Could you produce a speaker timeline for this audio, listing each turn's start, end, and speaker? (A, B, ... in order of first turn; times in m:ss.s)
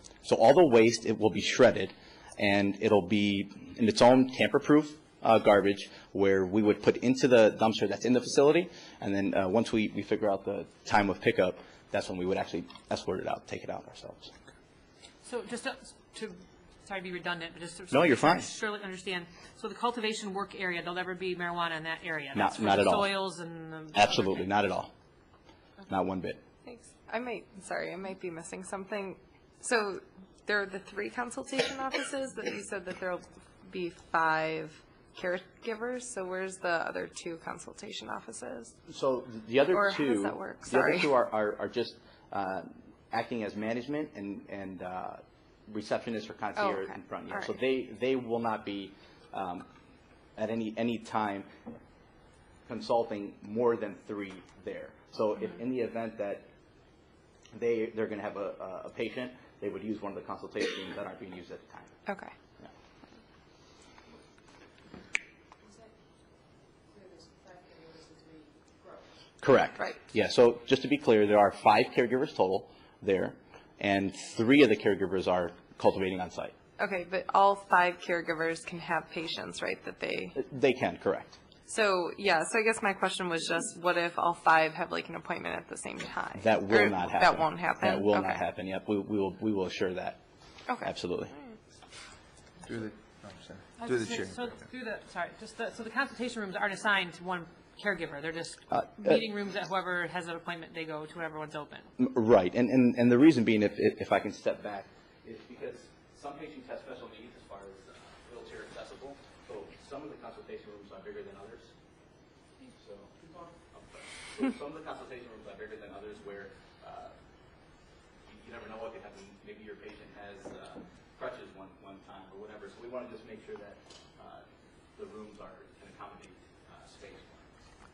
0:00.2-0:14.3 A
0:15.2-0:24.5 B
0:17.9-0:18.5 A
0:22.4-0:23.2 A
0:23.9-0:24.9 A
0:25.9-0:26.4 A
0:26.6-0:38.8 C
0:38.9-0:49.7 A
0:39.7-0:41.1 C
0:46.6-0:47.5 C
0:50.4-0:51.5 A
0:52.7-0:56.5 A
0:57.5-1:01.9 A
1:02.1-1:02.3 C
1:09.4-1:16.5 A
1:16.8-1:20.4 C
1:20.4-1:21.4 A
1:21.7-1:28.4 C
1:26.4-1:30.2 A
1:30.7-1:31.6 C
1:30.8-1:31.3 A
1:32.6-1:34.6 D
1:33.8-1:41.9 B
1:38.7-1:39.2 A
1:42.0-1:51.7 A
1:52.8-1:53.1 A
1:53.7-1:57.2 A
1:58.2-2:07.5 A